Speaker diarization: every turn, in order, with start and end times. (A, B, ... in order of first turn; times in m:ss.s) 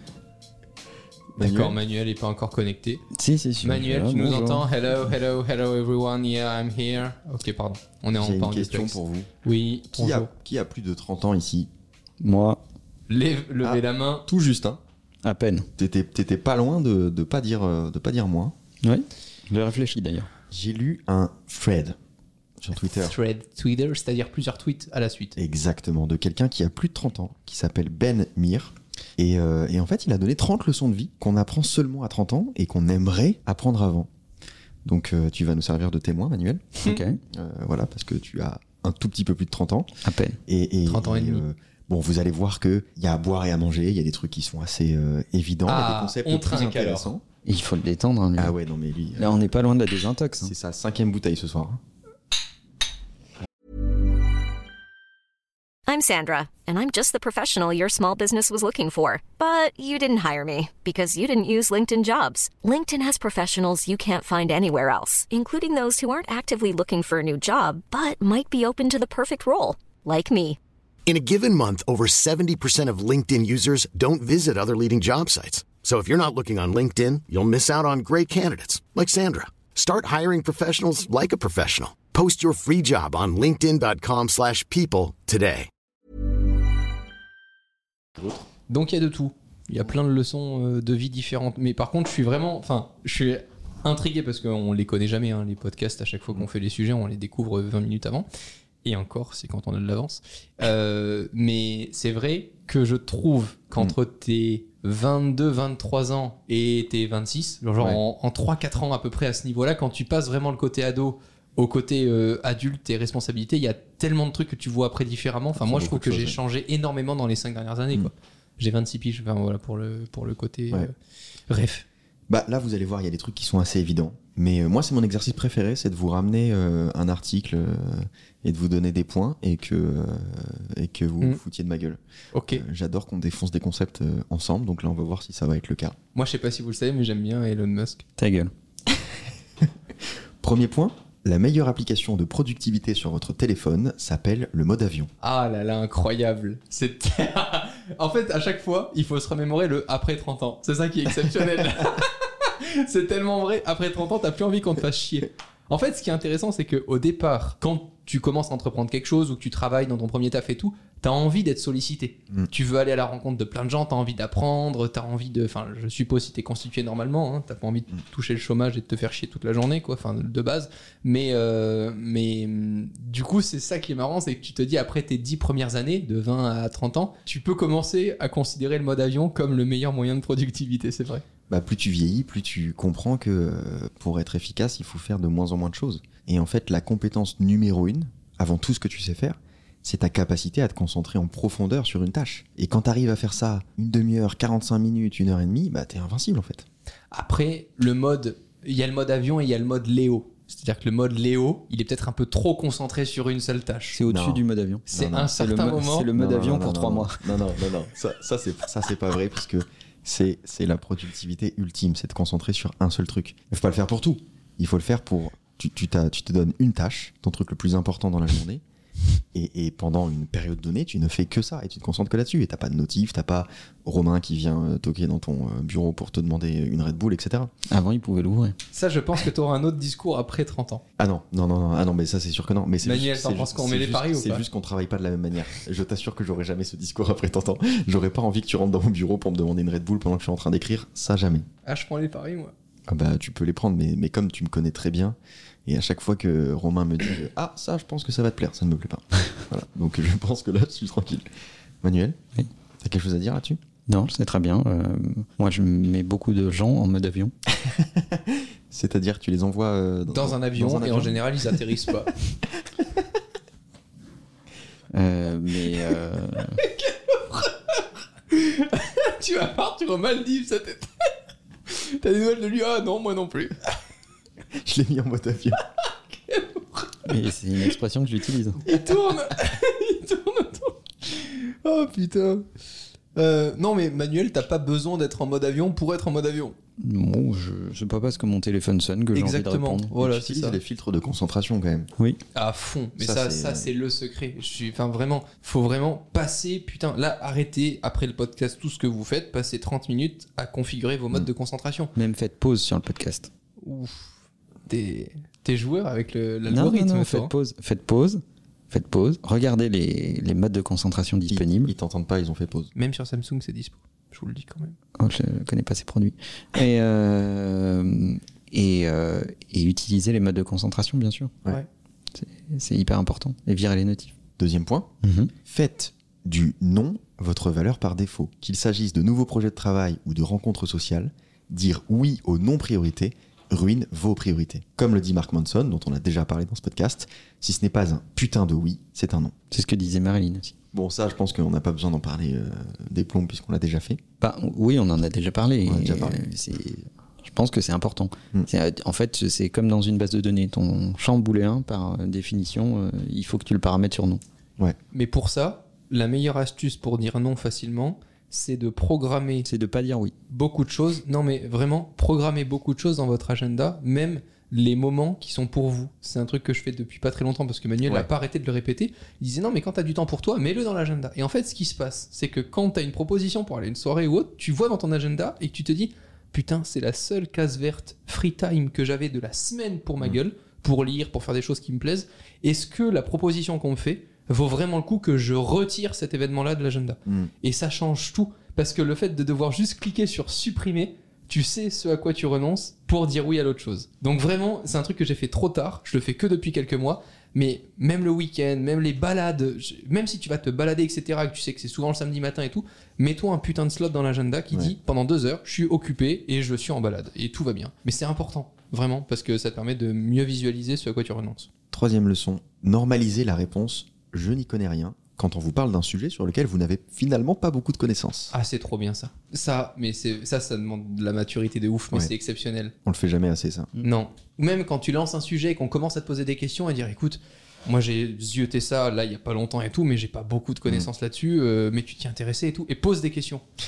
0:01.4-0:01.8 A
0:01.4-0:03.0 B
0:03.1-0:04.6 C
0:03.6-0:10.3 B
0:08.2-0:09.3 A
0:09.9-0:11.7 A
0:12.2-0:12.6 C
0:13.1-0:14.3 B
0:13.6-0:14.8 A
0:15.2-0:15.7 C
0:15.8-0:18.5 A
0:18.8-0:20.3 C
0:20.5-0:22.0 A
0:22.6-0:23.2 A
0:22.9-0:25.4 B
0:25.4-0:34.1 A
0:34.8-0:39.9 A
0:36.8-0:37.2 C
0:40.0-0:40.4 C
0:40.5-0:47.2 A
0:40.9-0:41.4 B
0:45.7-0:47.1 B
0:47.4-0:48.5 C
0:48.4-0:49.4 A
0:49.2-0:50.5 C
0:50.4-0:51.8 A
0:55.9-1:10.6 D
1:11.1-1:25.7 E
1:28.7-1:38.3 B
1:38.8-2:00.9 B
1:55.6-1:56.4 A
2:01.5-2:01.8 B
2:02.3-2:16.0 A
2:12.3-2:12.6 B
2:16.2-2:18.0 B
2:18.2-2:18.5 C
2:20.4-2:25.1 A
2:25.2-3:01.2 B
3:01.5-3:16.7 A
3:17.1-3:24.0 B
3:23.9-3:27.3 C
3:24.1-3:25.3 A
3:24.9-3:26.1 B
3:26.1-3:38.6 A
3:39.3-3:47.5 A
3:47.7-3:48.6 C
3:48.7-3:50.8 B
3:51.0-4:01.5 A
3:52.8-3:54.4 B
4:01.7-4:02.5 B
4:02.9-4:11.2 A
4:11.8-4:12.2 A
4:12.8-4:13.6 A
4:13.9-4:17.3 C
4:17.6-4:21.6 A
4:20.1-4:22.2 B
4:24.9-4:26.6 C
4:26.6-4:30.9 B
4:31.7-4:33.6 B
4:34.6-4:35.6 A
4:36.3-4:36.9 B
4:37.1-4:38.6 C
4:38.6-4:42.5 B
4:43.2-4:46.6 B
4:46.8-4:49.9 C
4:49.2-4:50.6 B
4:49.9-4:51.9 A
4:52.4-5:01.9 B
4:53.0-4:53.7 A
5:02.0-5:03.3 C
5:03.6-5:04.1 B
5:04.7-5:07.3 B
5:06.5-5:11.7 C
5:11.3-5:12.7 A
5:12.8-5:14.8 B
5:15.0-5:21.3 C
5:22.2-5:24.1 C
5:24.4-5:24.9 A
5:25.0-5:25.3 C
5:25.4-5:39.3 A
5:39.5-5:40.5 C
5:40.7-5:44.0 A
5:44.2-5:54.2 C
5:45.6-5:46.2 A
5:54.9-5:59.5 B
5:59.5-6:00.1 C
6:00.3-6:51.5 B
6:27.1-6:27.3 A
6:51.7-6:58.3 A
6:58.3-7:02.7 B
7:02.8-7:03.7 A
7:03.8-7:13.4 B